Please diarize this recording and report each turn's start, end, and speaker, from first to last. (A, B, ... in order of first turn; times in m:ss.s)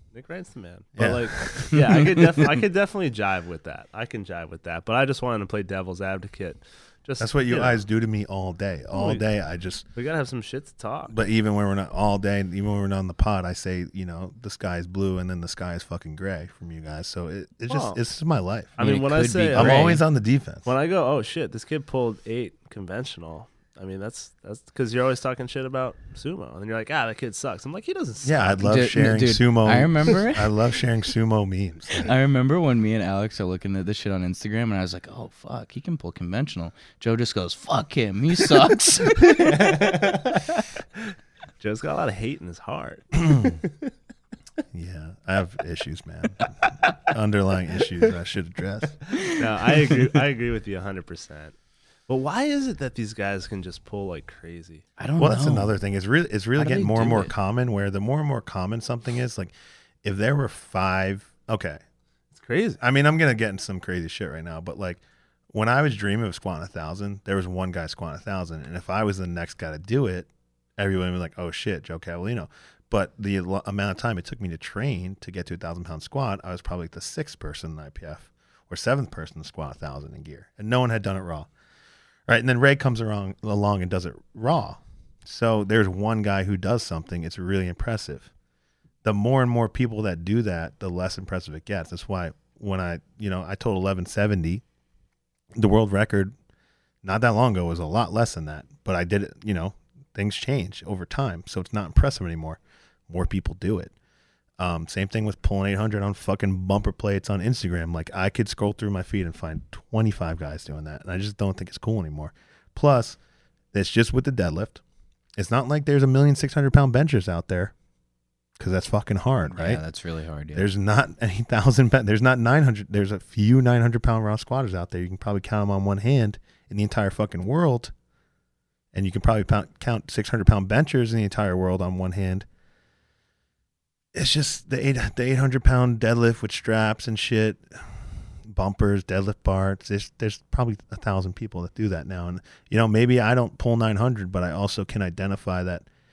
0:00.1-0:07.8 A
0:01.0-0:02.1 B
0:07.2-0:09.8 B
0:08.9-0:09.2 A
0:09.9-0:11.1 A
0:11.1-0:18.8 B
0:17.7-0:18.0 A
0:18.8-0:20.0 A
0:18.8-0:20.0 C
0:19.5-0:20.7 B
0:20.6-0:28.6 A
0:28.2-0:32.1 B
0:28.6-0:30.6 C
0:32.0-0:40.4 C
0:39.3-0:40.4 A
0:41.6-0:43.8 A
0:44.7-0:49.0 B
0:49.2-0:51.5 A
0:52.1-0:54.8 A
0:55.0-0:55.7 C
0:55.2-1:01.8 B
0:56.6-0:57.3 C
1:02.3-1:02.8 A
1:02.8-1:21.5 B
1:22.3-1:28.3 B
1:29.0-1:34.6 B
1:35.5-1:36.3 B
1:37.0-1:43.9 B
1:44.6-1:53.2 B
1:53.7-1:54.8 B
1:55.4-1:57.7 B
1:58.6-1:59.8 B
1:59.5-2:00.7 C
2:00.5-2:07.9 B
2:08.9-2:12.4 B
2:14.1-2:25.9 B